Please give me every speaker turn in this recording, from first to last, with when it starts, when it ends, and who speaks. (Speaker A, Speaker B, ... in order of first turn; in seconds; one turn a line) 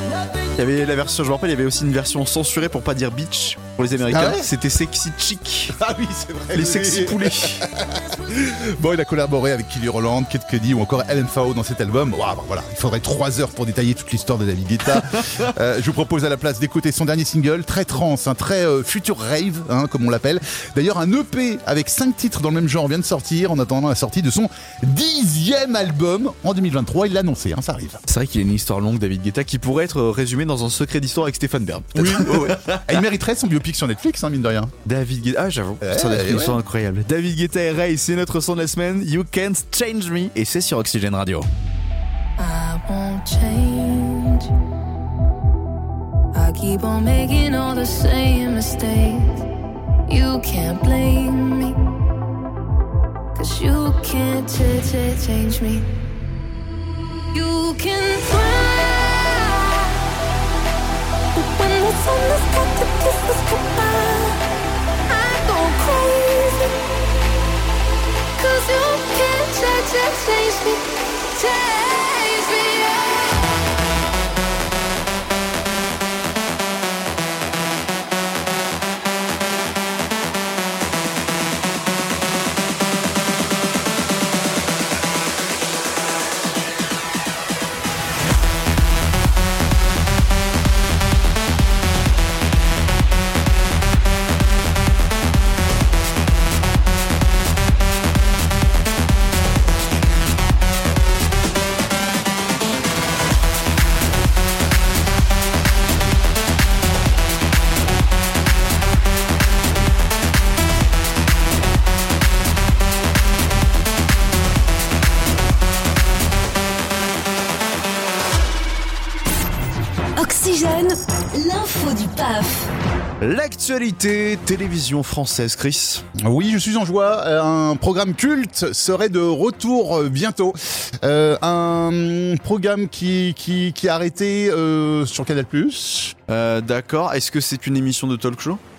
Speaker A: 0.4-5.8
Speaker B: 4.1-4.5
Speaker B: 5.7-28.0
Speaker A: 6.5-7.7
Speaker A: 28.1-33.0
Speaker B: 31.9-34.7
Speaker A: 34.8-41.5
Speaker B: 35.8-36.6
Speaker C: 42.4-44.5
Speaker C: 46.3-49.4
Speaker C: 50.1-51.8
Speaker C: 53.3-55.9
Speaker C: 57.3-60.0
Speaker C: 61.3-64.4
Speaker C: 65.1-66.8
Speaker C: 68.4-73.5
Speaker D: 120.2-122.7
Speaker A: 123.2-126.0
Speaker B: 126.2-136.1
Speaker A: 136.3-138.6